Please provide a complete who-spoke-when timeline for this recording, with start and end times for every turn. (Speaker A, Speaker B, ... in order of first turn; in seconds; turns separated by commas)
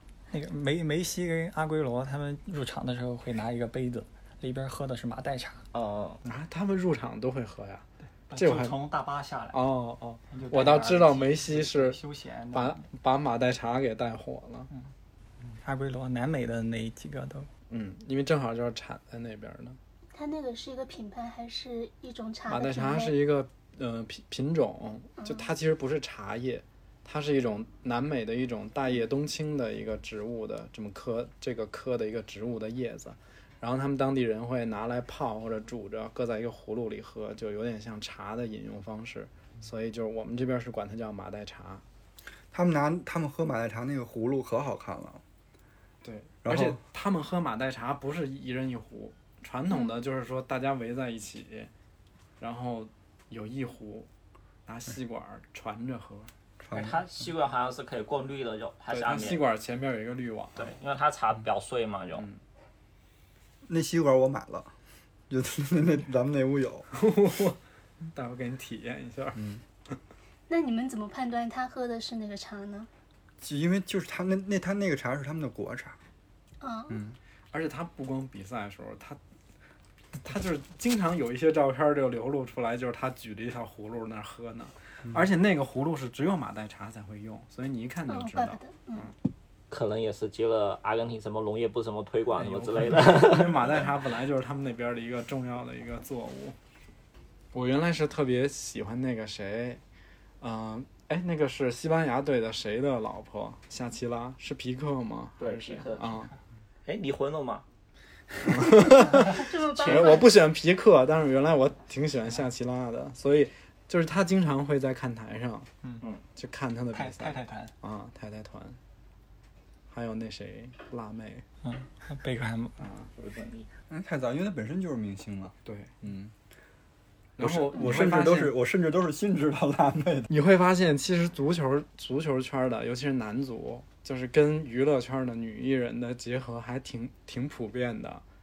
Speaker A: 0.3-5.6, Speaker B: 5.7-6.2, Speaker C: 6.2-8.8, Speaker A: 8.3-9.7, Speaker C: 9.5-12.0, Speaker A: 10.3-12.9, Speaker C: 12.5-14.7, Speaker A: 15.6-17.5, Speaker C: 17.7-19.8, Speaker D: 20.1-23.2, Speaker C: 22.5-41.8, Speaker D: 25.2-25.5, Speaker E: 42.5-45.2, Speaker C: 46.0-51.7, Speaker E: 46.5-46.8, Speaker C: 52.4-54.1, Speaker C: 54.7-56.3, Speaker E: 56.6-57.0, Speaker B: 56.7-59.5, Speaker C: 58.9-60.7, Speaker B: 60.6-62.3, Speaker E: 63.7-64.7, Speaker E: 65.3-66.9, Speaker C: 66.9-67.6, Speaker C: 68.1-69.4, Speaker D: 70.5-72.9, Speaker E: 73.4-76.0, Speaker D: 76.6-77.0, Speaker E: 76.9-77.2, Speaker C: 77.5-79.2, Speaker C: 80.2-89.1, Speaker D: 88.1-89.1, Speaker B: 89.7-93.8, Speaker C: 92.3-96.6, Speaker C: 97.5-99.8, Speaker C: 100.4-106.3, Speaker B: 105.4-106.2, Speaker B: 106.9-107.6, Speaker C: 108.4-115.7, Speaker D: 109.0-110.3, Speaker C: 116.4-118.8, Speaker A: 116.9-117.8, Speaker C: 119.9-121.5, Speaker A: 121.6-122.8, Speaker C: 122.8-123.1, Speaker B: 123.2-123.7, Speaker E: 123.9-126.3, Speaker C: 125.6-126.0, Speaker E: 127.4-130.3, Speaker C: 127.4-128.6, Speaker C: 130.3-138.2